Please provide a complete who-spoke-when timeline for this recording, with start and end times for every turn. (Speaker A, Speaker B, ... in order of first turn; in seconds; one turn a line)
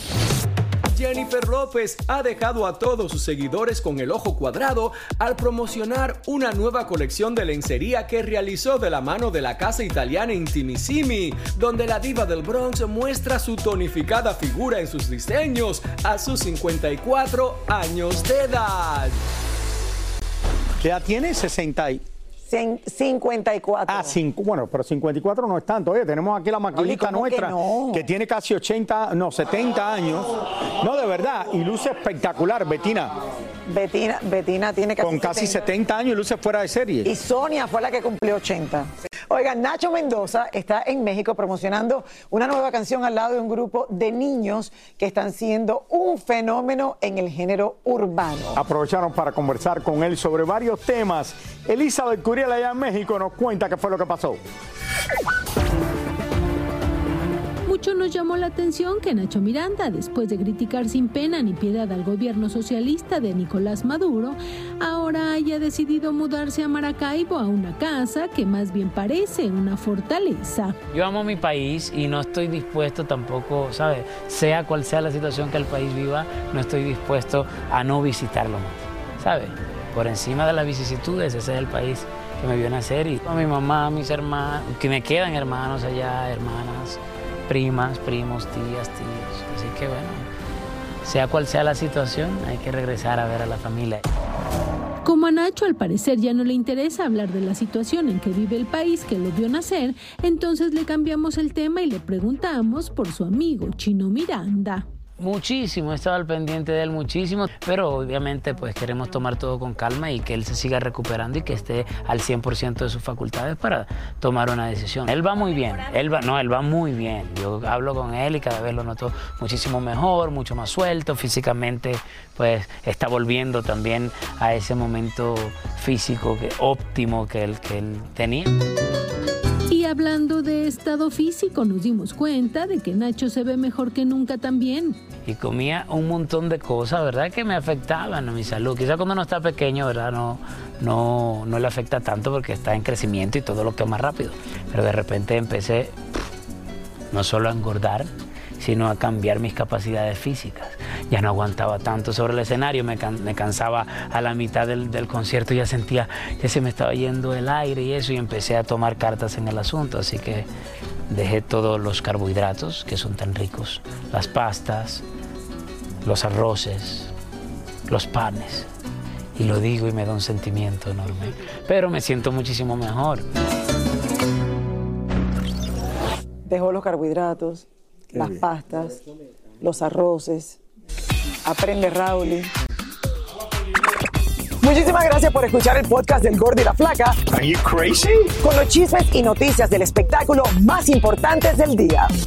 Speaker A: 0.9-19.1
Speaker B: 20.8-22.0
Speaker C: 22.5-24.2
Speaker B: 23.9-33.1
Speaker C: 26.7-28.1
Speaker C: 33.7-35.7
Speaker B: 35.0-37.1
Speaker C: 37.0-48.6
Speaker B: 48.5-54.4
Speaker D: 57.7-70.8
Speaker E: 70.9-90.3
Speaker E: 91.0-94.0
Speaker D: 95.0-104.8
Speaker E: 105.2-128.5
Speaker D: 129.7-135.0
Speaker E: 135.2-145.9
Speaker E: 147.1-160.5
Speaker E: 161.1-165.0
Speaker E: 166.0-167.1
Speaker E: 167.9-168.7
Speaker E: 169.3-173.2
Speaker C: 176.5-179.0
Speaker C: 179.6-180.6
Speaker C: 181.4-182.5
Speaker C: 184.6-187.2
Speaker B: 187.3-188.3
Speaker C: 188.4-192.1